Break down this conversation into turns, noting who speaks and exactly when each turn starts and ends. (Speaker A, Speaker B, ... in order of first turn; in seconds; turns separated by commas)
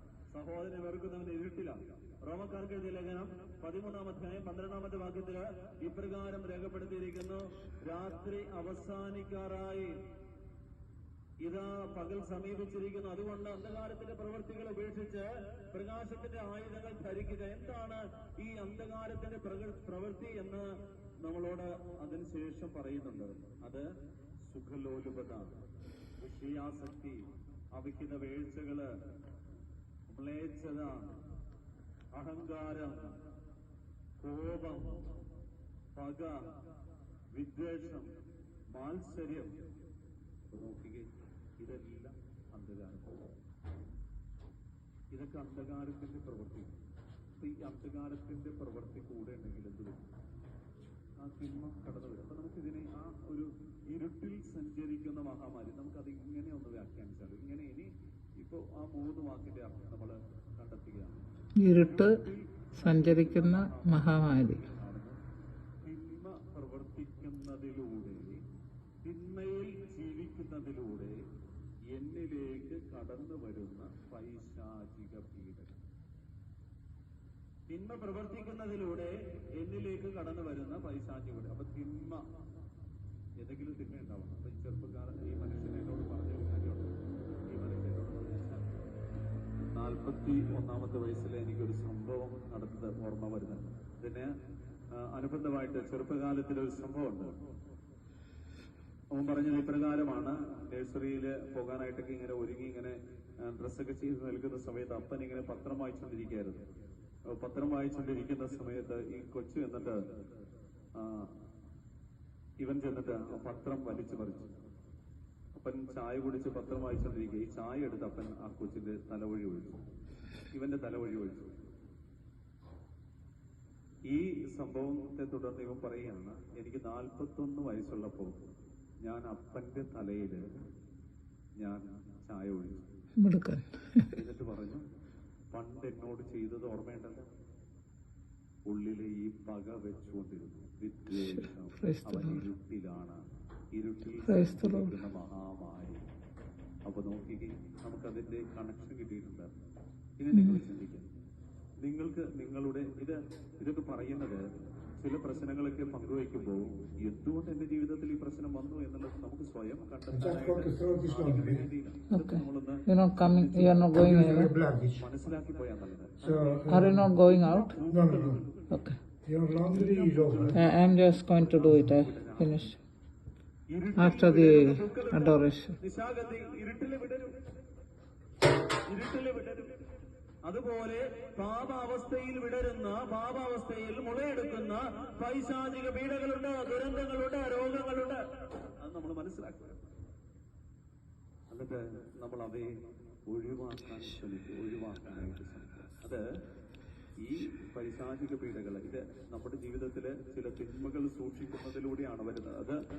Speaker A: 0.3-10.0, Speaker A: 11.4-20.7, Speaker A: 21.2-23.9, Speaker A: 24.4-25.5, Speaker A: 26.2-28.9, Speaker A: 30.1-31.1, Speaker A: 32.1-33.2, Speaker A: 34.2-35.1, Speaker A: 36.0-36.4, Speaker A: 37.3-38.1, Speaker A: 38.7-39.6, Speaker A: 40.5-41.1, Speaker A: 41.6-43.3, Speaker A: 45.1-46.7, Speaker A: 47.4-50.0, Speaker A: 51.2-65.2, Speaker B: 61.6-62.2, Speaker B: 62.8-64.6, Speaker A: 65.8-68.4, Speaker A: 69.0-71.2, Speaker A: 71.9-75.8, Speaker A: 77.7-82.2, Speaker A: 83.4-86.9, Speaker A: 87.5-88.7, Speaker A: 89.7-94.3, Speaker A: 95.0-97.3, Speaker A: 99.1-106.6, Speaker A: 107.3-110.0, Speaker A: 111.0-111.3, Speaker A: 112.6-114.5, Speaker A: 115.5-119.8, Speaker A: 120.5-121.5, Speaker A: 124.1-128.4, Speaker A: 129.0-130.4, Speaker A: 131.6-132.9, Speaker B: 133.2-134.1, Speaker A: 134.1-134.8, Speaker A: 135.5-137.3, Speaker A: 138.7-143.2, Speaker B: 141.1-142.4, Speaker A: 143.7-146.0, Speaker B: 144.2-144.9, Speaker A: 146.8-149.5, Speaker A: 150.2-151.1, Speaker B: 150.3-150.6, Speaker A: 151.8-154.4, Speaker A: 155.0-168.8, Speaker C: 160.2-161.7, Speaker B: 162.1-164.5, Speaker C: 163.5-165.0, Speaker C: 166.2-167.1, Speaker B: 166.7-167.8, Speaker C: 167.8-168.4, Speaker B: 168.7-169.0, Speaker C: 169.2-170.6, Speaker A: 169.7-170.6, Speaker B: 170.5-172.8, Speaker A: 171.4-172.7, Speaker A: 173.7-177.3, Speaker B: 174.0-175.8, Speaker A: 178.8-179.7, Speaker A: 180.4-189.8, Speaker A: 191.5-192.8, Speaker A: 193.3-196.2, Speaker A: 197.2-202.8